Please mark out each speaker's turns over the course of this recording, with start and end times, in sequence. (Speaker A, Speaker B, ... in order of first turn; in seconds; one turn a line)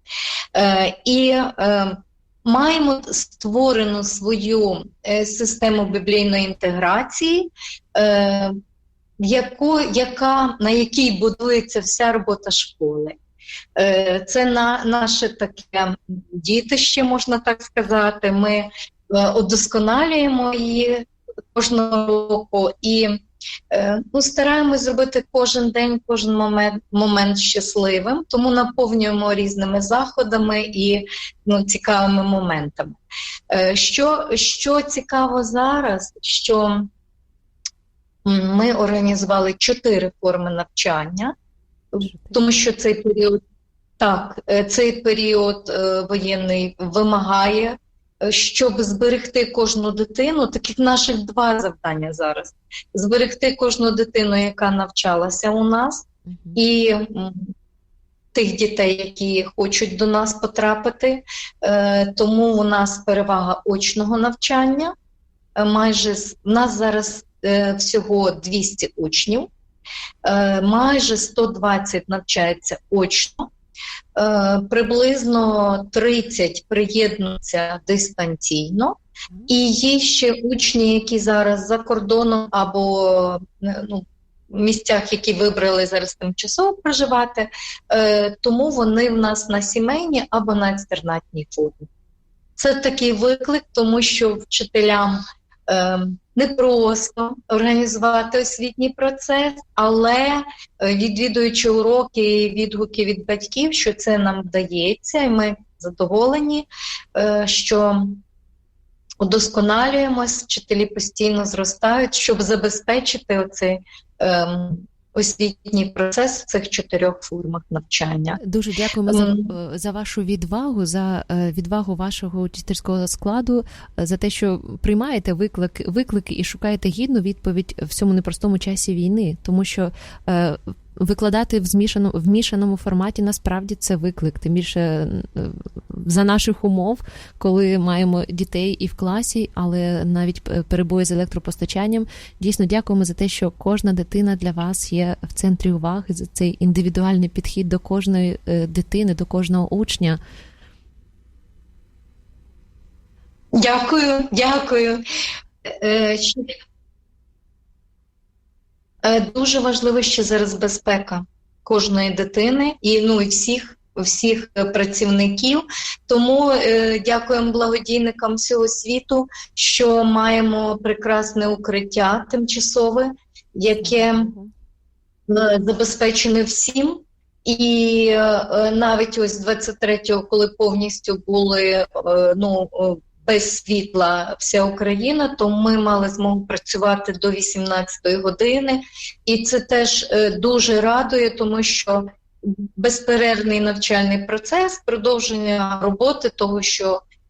Speaker A: 0.6-8.6
Speaker A: 9.2-13.2
Speaker A: 13.8-33.0
Speaker A: 33.5-36.9
Speaker A: 38.2-41.4
Speaker A: 41.9-43.4
Speaker B: 42.0-42.5
Speaker A: 44.0-57.5
Speaker B: 56.3-56.6
Speaker A: 58.3-64.9
Speaker A: 65.6-69.5
Speaker A: 70.2-73.5
Speaker A: 74.2-79.0
Speaker A: 79.5-91.9
Speaker A: 92.6-108.2
Speaker A: 109.2-118.4
Speaker B: 118.4-150.2
Speaker A: 119.1-119.5
Speaker A: 153.5-155.0
Speaker A: 155.7-156.6
Speaker A: 159.0-174.3
Speaker B: 173.8-174.5
Speaker A: 175.3-197.0